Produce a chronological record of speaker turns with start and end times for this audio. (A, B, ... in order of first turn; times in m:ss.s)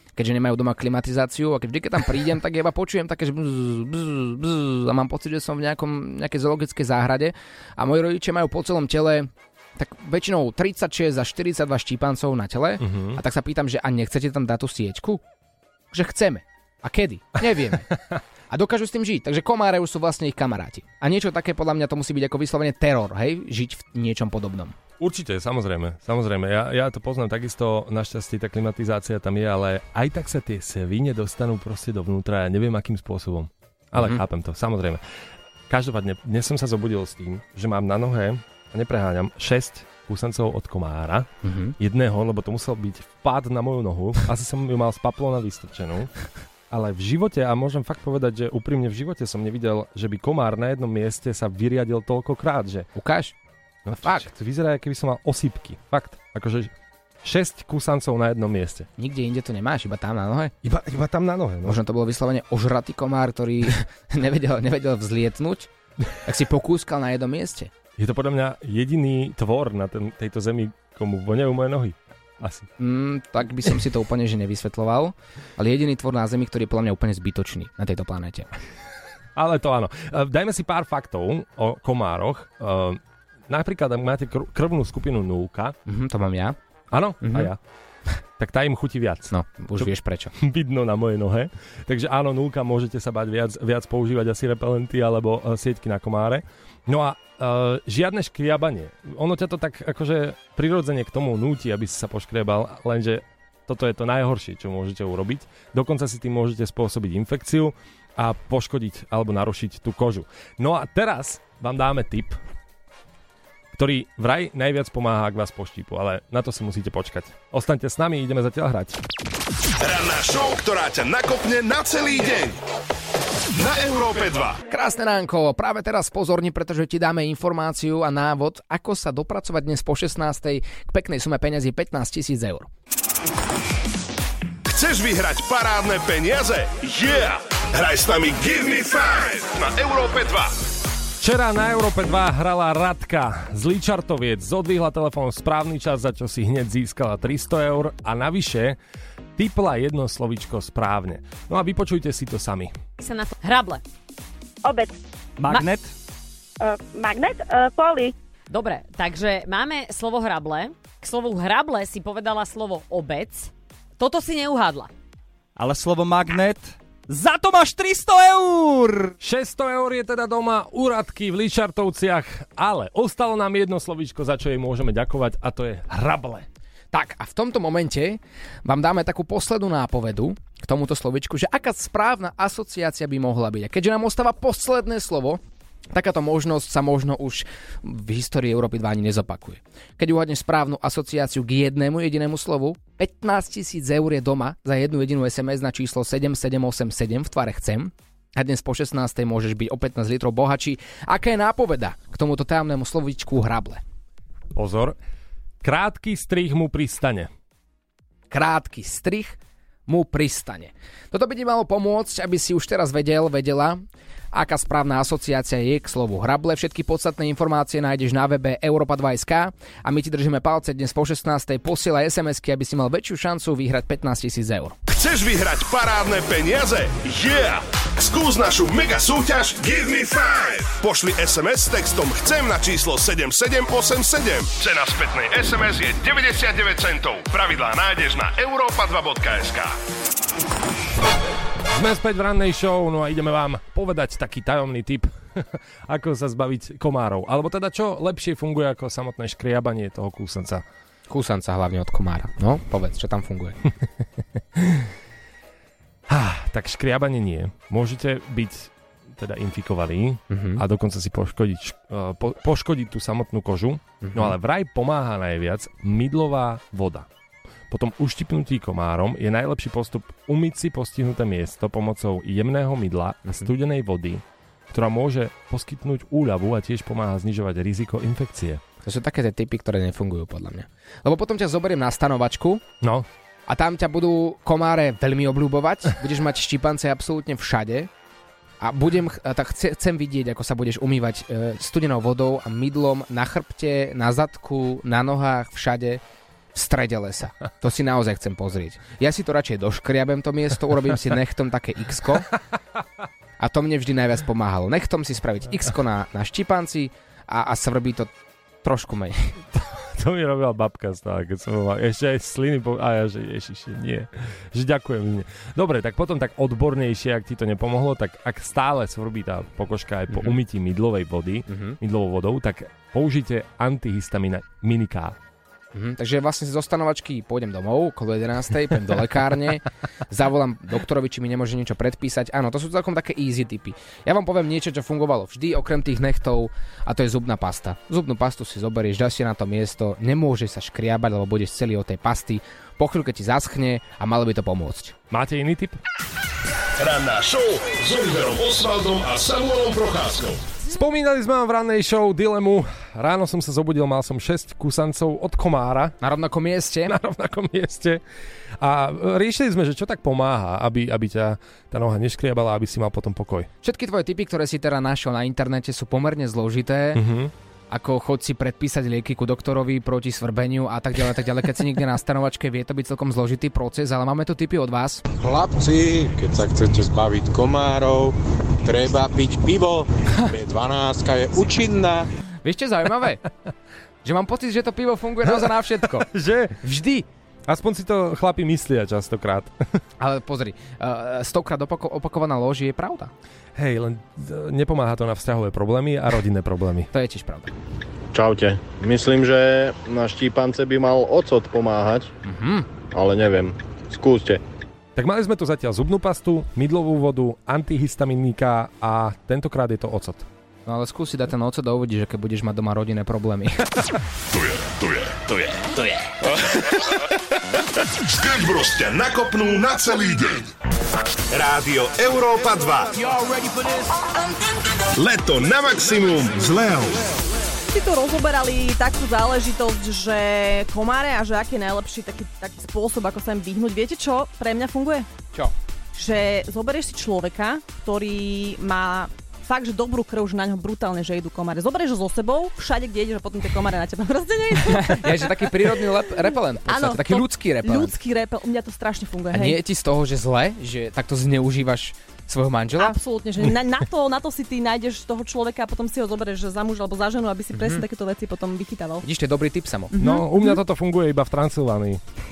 0:00.2-0:15.2 A
0:12.8-0:13.2 B
0:15.9-0:17.9 A
0:18.5-0:24.8 A
0:25.0-0:35.0 B
0:35.7-0:46.1 B
0:41.4-0:41.8 A
0:46.7-0:52.9 B
0:53.0-0:53.3 A
0:53.8-0:56.7 B
0:57.2-0:58.9 B
0:59.0-1:00.5 A
1:00.6-1:01.8 B
1:01.6-1:05.7 A
1:06.2-1:07.7 A
1:08.0-1:12.7 B
1:12.8-1:18.5 A
1:19.4-1:25.8 B
1:25.9-1:26.6 A
1:26.9-1:27.6 B
1:27.2-1:27.5 A
1:28.4-1:52.4 B
1:29.3-1:30.3 A
1:53.7-1:59.0 B
1:59.8-2:02.6 C
2:03.6-2:04.6 C
2:04.7-2:12.7 A
2:14.7-2:20.5 C
2:21.2-2:28.8 B
2:29.4-2:32.8 B
2:33.0-2:33.8 D
2:34.6-2:35.0 E
2:35.4-2:35.9 F
2:36.6-2:38.2 E
2:38.5-2:44.9 D
2:45.6-2:49.2 F
2:49.2-2:56.5 B
2:56.9-3:05.4 A
3:05.9-3:23.8 A
3:24.5-3:25.0 B
3:25.6-3:27.3 B
3:28.3-3:33.8 A
3:34.3-3:44.8 A
3:44.9-3:59.8 C
4:01.7-4:10.6 B
4:11.1-4:13.6 A
4:14.6-4:14.9 B
4:16.1-4:27.1 B
4:20.3-4:20.6 A
4:24.0-4:24.4 A
4:27.7-4:38.6 B
4:38.8-4:42.6 A
4:42.8-4:43.1 B
4:43.5-4:47.9 A
4:48.6-4:56.0 A
4:56.6-5:02.3 A
5:03.4-5:08.1 A
5:08.6-5:09.4 A
5:09.5-5:25.2 B
5:20.1-5:20.4 A
5:21.5-5:21.8 A
5:25.7-5:45.0 A
5:45.1-5:45.8 B
5:46.8-5:50.4 C
5:50.7-5:56.0 B
5:56.0-5:57.0 A
5:56.9-5:58.0 B
5:58.6-6:03.5 B
6:03.6-6:07.0 A
6:06.9-6:07.3 B
6:07.7-6:15.0 A
6:15.2-6:22.1 G
6:22.4-6:23.2 A
6:24.0-6:26.1 A
6:25.3-6:26.6 B
6:26.6-6:27.1 A
6:27.5-6:29.6 B
6:30.0-6:33.1 A
6:33.6-6:36.9 B
6:36.9-6:37.5 A
6:38.1-6:42.1 H
6:42.2-6:42.7 A
6:42.9-6:44.4 H
6:45.0-6:50.2 B
6:50.7-6:53.7 A
6:54.3-6:57.0 C
6:57.9-7:00.5 C
7:01.3-7:03.0 C
7:05.0-7:07.0 C
7:07.7-7:15.1 I
7:16.0-7:25.8 I
7:24.7-7:28.0 A
7:26.7-7:29.6 I
7:29.3-7:33.0 A
7:32.8-7:39.0 I
7:37.5-7:37.9 A
7:39.0-7:40.0 A
7:39.9-7:40.6 I
7:40.0-7:42.0 B